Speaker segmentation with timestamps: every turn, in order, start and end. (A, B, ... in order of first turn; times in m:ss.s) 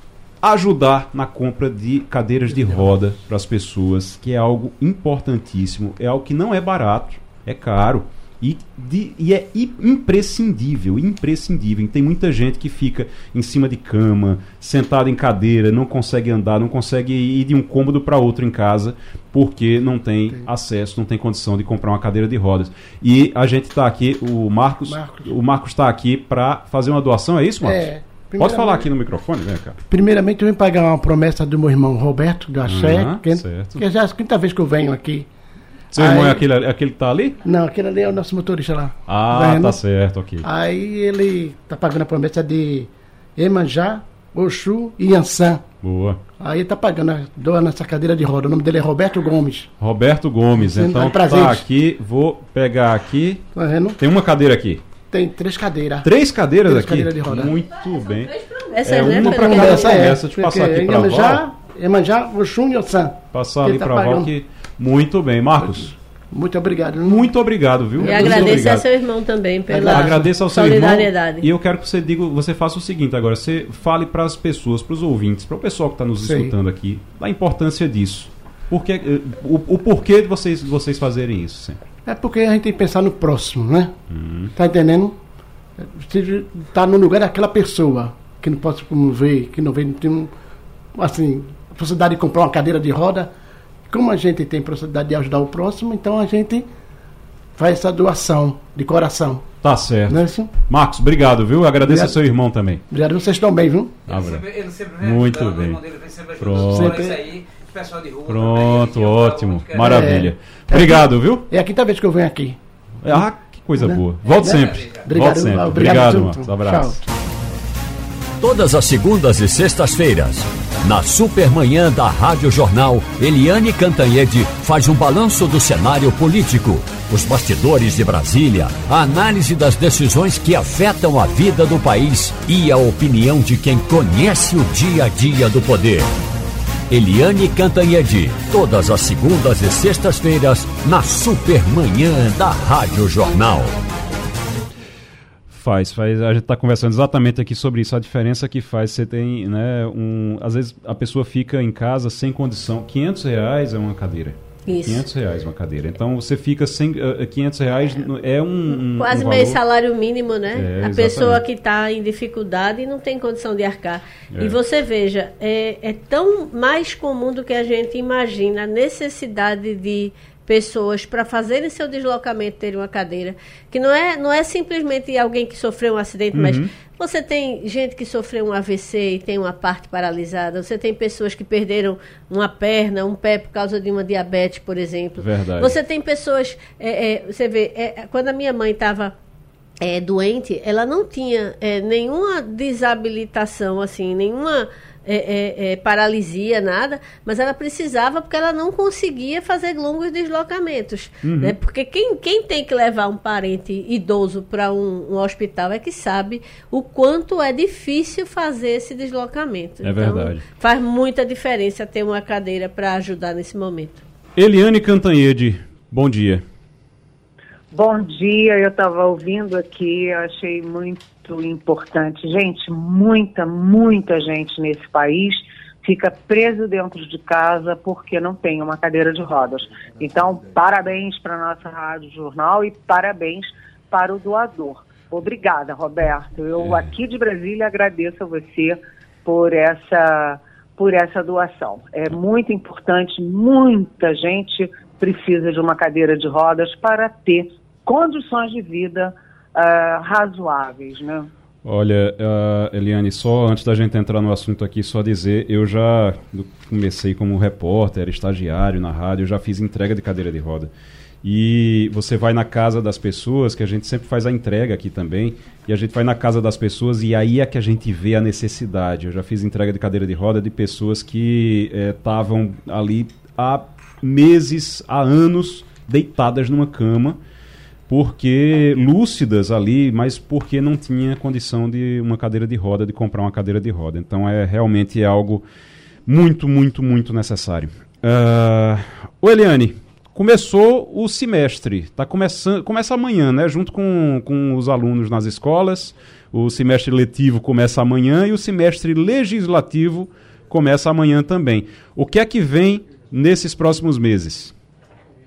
0:00.4-0:29.8 A
0:24.9-0:25.3 B
0:27.6-0:28.9 B
0:29.9-0:35.3 B
0:32.6-0:33.8 A
0:35.9-0:37.4 A
0:36.0-0:36.4 B
0:37.4-0:39.8 B
0:39.1-0:40.4 A
0:40.4-0:45.6 B
0:45.8-0:46.2 A
0:46.4-0:49.7 B
0:49.8-0:53.4 A
0:50.6-0:51.6 B
0:53.6-0:54.0 B
0:54.0-0:54.8 A
0:55.1-0:56.1 B
0:56.0-0:58.3 A
0:56.7-0:57.5 B
0:58.5-1:00.1 C
0:58.8-1:01.4 A
0:59.0-1:04.3 B
1:03.3-1:05.9 A
1:05.6-1:07.3 B
1:07.0-1:08.8 A
1:08.0-1:08.6 B
1:08.0-1:11.5 C
1:09.7-1:10.4 B
1:09.8-1:21.8 A
1:16.2-1:16.5 B
1:22.1-1:23.9 B
1:24.1-1:24.5 A
1:24.6-1:25.2 B
1:25.9-1:30.3 B
1:31.0-1:33.3 B
1:33.9-1:36.7 B
1:37.6-1:39.4 B
1:39.6-1:42.8 A
1:40.1-1:40.5 B
1:41.8-1:42.1 B
1:42.9-1:44.0 B
1:44.1-1:47.2 A
1:46.6-1:47.3 B
1:48.2-1:51.5 A
1:49.8-1:52.6 B
1:53.0-1:57.0 A
1:53.8-1:57.1 B
1:58.4-2:16.1 D
2:16.9-2:23.7 D
2:25.5-2:39.6 A
2:34.7-2:35.0 C
2:38.9-3:09.1 C
2:40.6-2:41.4 A
2:56.3-2:56.7 A
3:05.2-3:05.8 A
3:09.8-3:34.0 C
3:21.2-3:21.6 A
3:29.8-3:30.4 A
3:34.4-3:36.4 A
3:37.7-4:11.3 E
4:11.6-4:20.7 A
4:21.2-4:37.2 A
4:37.9-4:45.4 A
4:46.1-5:04.5 A